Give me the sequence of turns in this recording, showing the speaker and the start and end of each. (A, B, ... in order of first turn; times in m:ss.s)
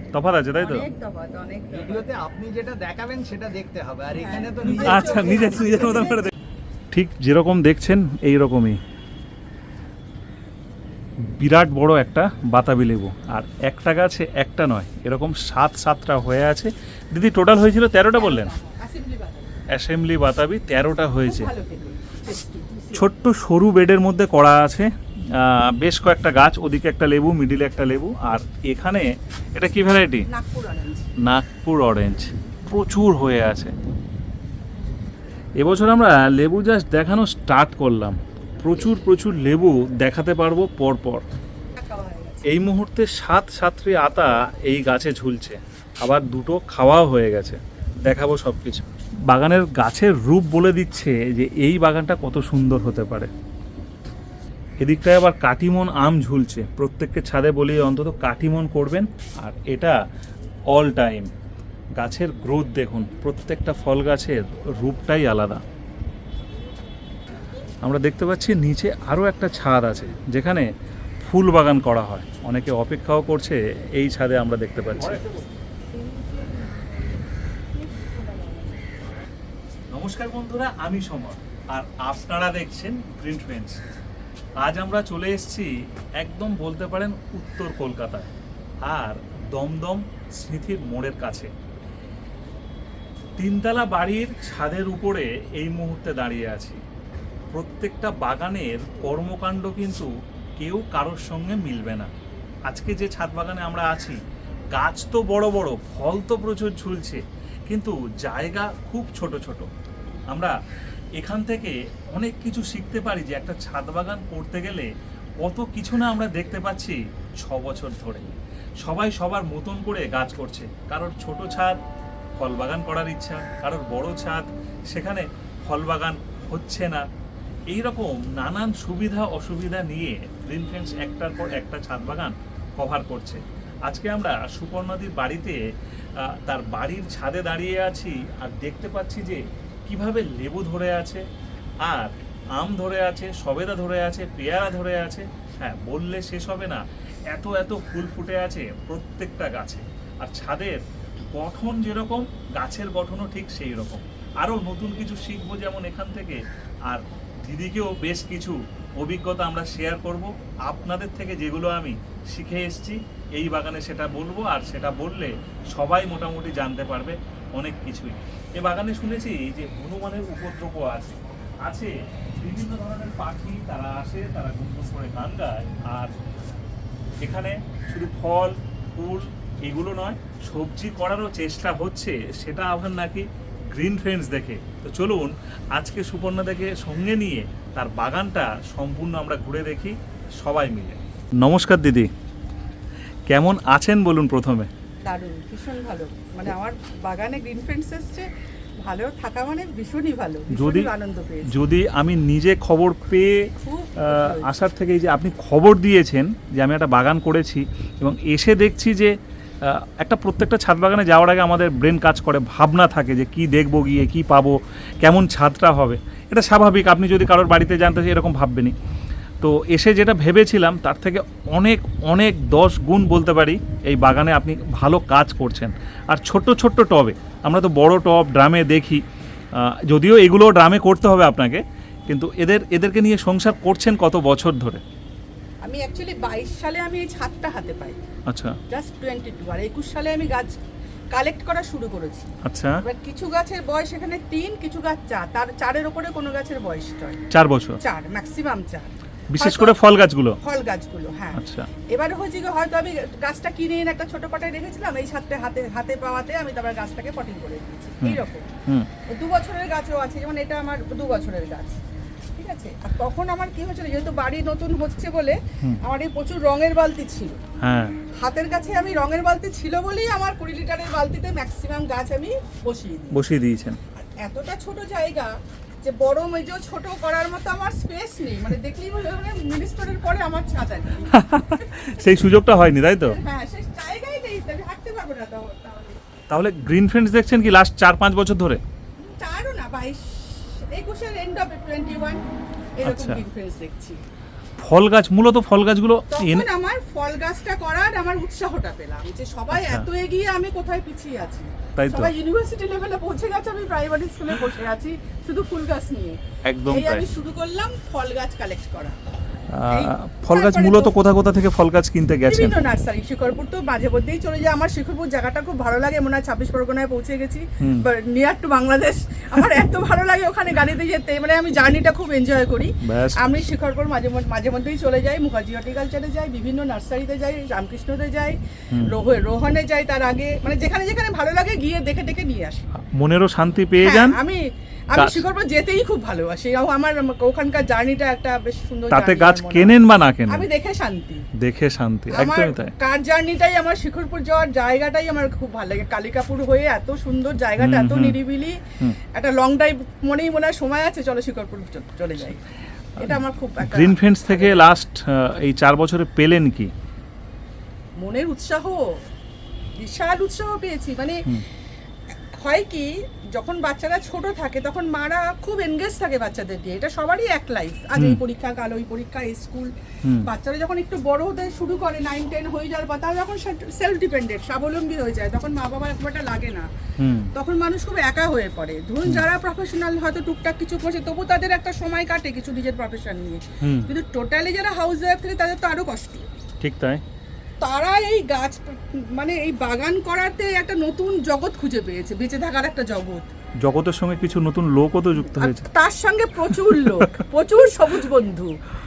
0:00.1-0:00.9 A
0:00.6-0:02.1 B
0:01.7-0:05.5 C
0:04.2-0:06.3 B
0:04.8-0:06.3 A
0:06.9-0:08.8 A
0:11.2-0:18.5 A
0:18.1-0:19.6 B
0:19.7-0:21.5 A
0:21.2-0:23.1 B
0:22.9-0:30.3 A
0:30.3-0:31.1 B
0:31.2-0:33.7 A
0:35.6-0:41.2 A
0:41.7-0:42.5 B
0:42.5-0:53.3 A
0:54.8-1:00.0 A
1:00.7-1:01.3 A
1:02.0-1:05.6 A
1:07.8-1:10.7 A
1:11.2-1:15.2 A
1:18.0-1:18.6 B
1:19.9-1:23.8 A
1:24.6-1:28.3 A
1:28.8-1:31.5 A
1:33.4-1:36.8 A
1:37.5-1:42.1 A
1:42.7-1:44.2 A
1:44.7-1:49.7 A
1:50.3-1:50.6 A
1:51.2-1:54.9 A
1:55.4-1:58.3 A
1:58.8-2:01.8 A
2:02.4-2:07.0 A
2:07.7-2:15.6 A
2:16.2-2:21.2 A
2:21.8-2:56.2 A
2:57.2-3:12.1 A
3:13.3-3:14.7 A
3:15.0-3:18.3 B
3:18.8-3:21.5 B
3:20.5-3:20.9 A
3:21.5-3:38.8 A
3:23.6-3:24.6 B
3:39.4-3:49.0 A
3:49.5-3:54.8 A
3:55.6-3:58.0 B
3:58.3-3:58.6 A
3:58.7-4:00.5 B
4:01.1-4:02.3 B
4:02.4-4:02.8 A
4:02.8-4:07.2 B
4:07.3-4:07.8 A
4:07.8-4:18.5 B
4:09.3-4:10.4 A
4:11.3-4:11.7 A
4:18.0-4:18.9 A
4:19.1-4:21.8 B
4:22.4-4:27.4 B
4:27.6-4:28.0 A
4:28.2-4:33.2 B
4:33.1-4:33.8 A
4:34.0-4:41.2 B
4:41.1-4:43.2 A
4:43.0-4:46.0 B
4:46.3-4:48.6 A
4:49.0-4:52.2 B
4:52.8-4:54.0 B
4:52.8-4:53.2 A
4:54.6-4:56.4 A
4:56.1-5:06.2 B
4:59.5-4:59.8 A
5:01.8-5:02.1 A
5:06.4-5:07.0 A
5:06.7-5:09.0 B
5:09.5-5:12.5 A
5:09.7-5:10.9 B
5:12.3-5:32.6 B
5:22.8-5:23.4 A
5:32.8-5:34.2 A
5:33.8-5:41.2 B
5:35.0-5:35.2 A
5:38.9-5:40.5 A
5:41.4-5:42.7 A
5:42.1-5:52.4 B
5:47.6-5:48.2 A
5:53.0-5:56.7 A
5:53.0-5:54.6 B
5:58.0-5:59.0 B
5:59.8-6:01.2 B
6:02.3-6:09.7 B
6:10.2-6:16.7 B
6:17.0-6:17.3 A
6:17.3-6:26.3 B
6:23.6-6:23.9 A
6:26.6-6:27.0 A
6:27.6-6:33.3 B
6:33.6-6:35.6 A
6:35.3-6:38.6 B
6:36.6-6:37.2 A